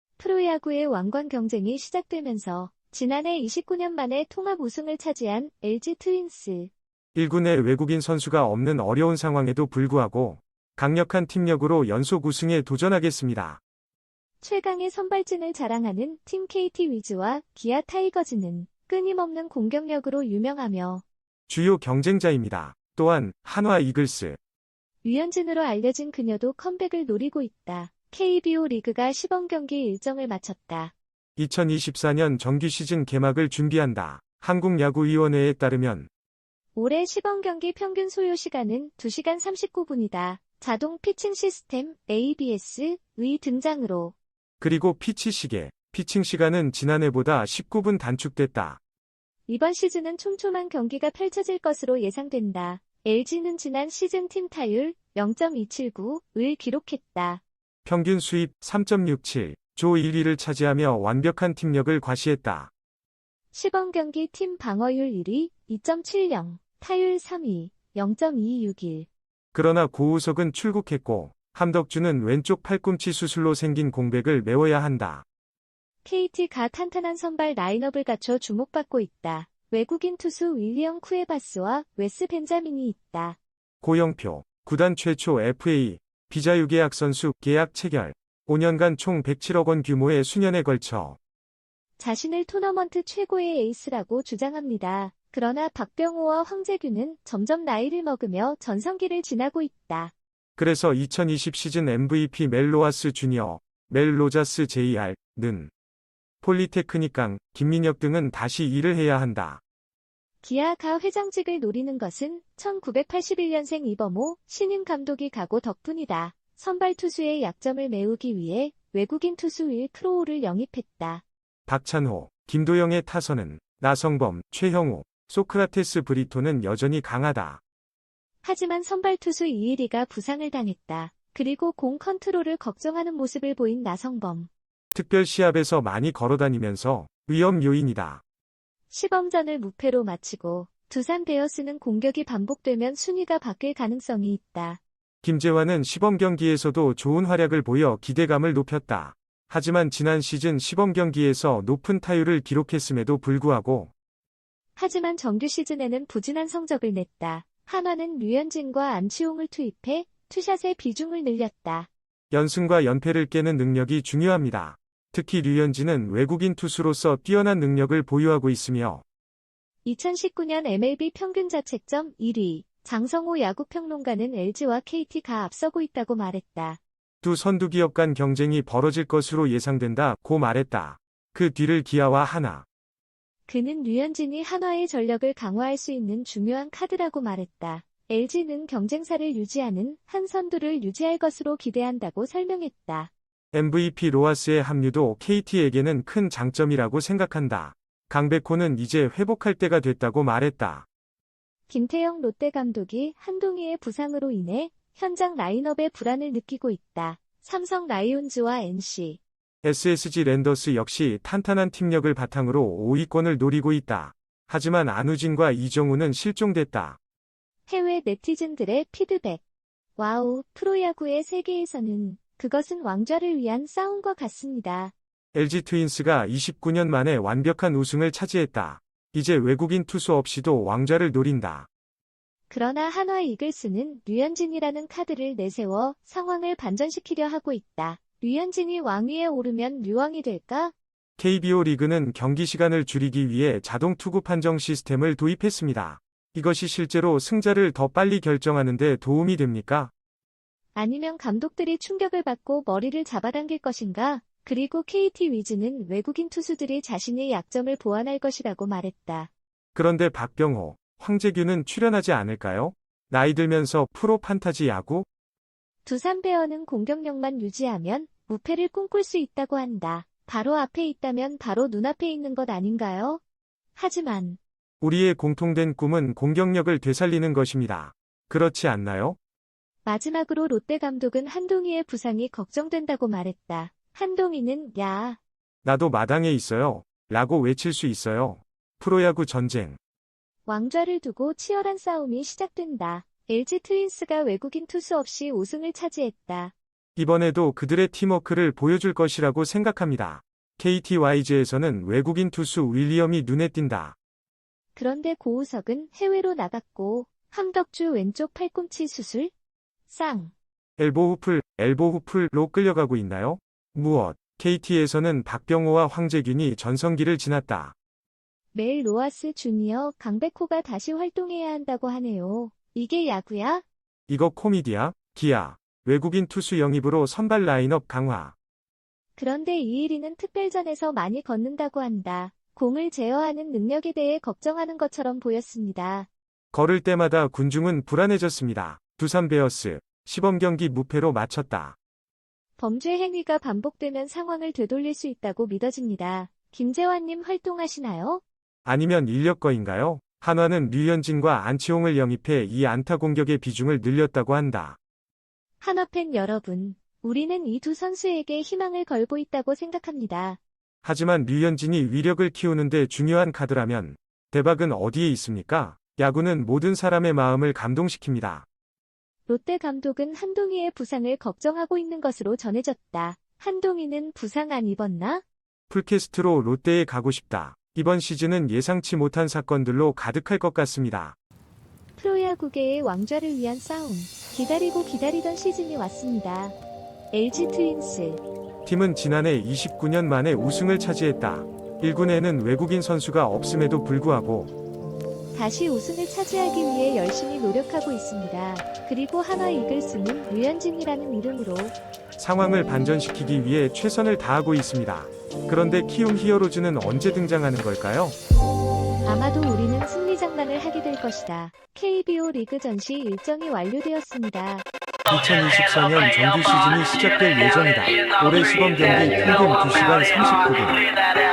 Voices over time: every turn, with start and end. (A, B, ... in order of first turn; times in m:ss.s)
0:00.2-0:06.7 A
0:07.2-0:13.6 B
0:14.4-0:21.0 A
0:21.5-0:24.4 B
0:25.0-0:30.9 A
0:31.4-0:36.1 B
0:36.8-0:44.1 A
0:44.6-0:48.8 B
0:49.5-0:57.4 A
0:57.8-1:02.7 B
1:03.5-1:09.1 A
1:09.5-1:15.2 B
1:16.0-1:23.4 A
1:23.8-1:31.2 B
1:32.0-1:40.1 A
1:40.6-1:45.7 B
1:46.4-1:49.6 B
1:50.4-2:01.2 A
2:01.7-2:07.6 B
2:08.4-2:14.5 A
2:14.9-2:18.2 B
2:18.9-2:24.8 A
2:25.2-2:33.9 B
2:34.8-2:41.9 A
2:42.3-2:49.0 B
2:49.8-2:56.8 A
2:57.2-3:02.7 B
3:03.5-3:13.1 A
3:13.5-3:20.9 B
3:21.7-3:29.2 A
3:29.6-3:37.0 B
3:37.7-3:39.4 A
3:40.0-3:44.9 A
3:45.3-3:51.7 B
3:52.5-4:00.7 A
4:01.2-4:09.9 B
4:10.8-4:19.3 A
4:19.8-4:25.1 B
4:25.8-4:33.2 A
4:33.8-4:34.4 A
4:34.8-4:39.2 B
4:39.8-4:45.2 A
4:45.6-4:49.8 B
4:50.5-4:56.5 A
4:57.0-5:04.0 B
5:04.8-5:09.3 A
5:09.9-5:10.3 A
5:10.8-5:17.8 B
5:18.5-5:23.6 A
5:24.1-5:28.4 B
5:29.2-5:36.1 A
5:36.5-5:41.8 B
5:42.6-5:48.2 A
5:48.6-5:54.8 B
5:55.6-6:00.4 A
6:00.8-6:08.5 B
6:09.3-6:15.2 A
6:15.7-6:21.2 B
6:22.0-6:26.6 A
6:27.1-6:28.2 A
6:28.6-6:34.5 B
6:35.3-6:41.8 A
6:42.2-6:48.2 B
6:49.1-6:54.7 A
6:55.1-7:00.8 B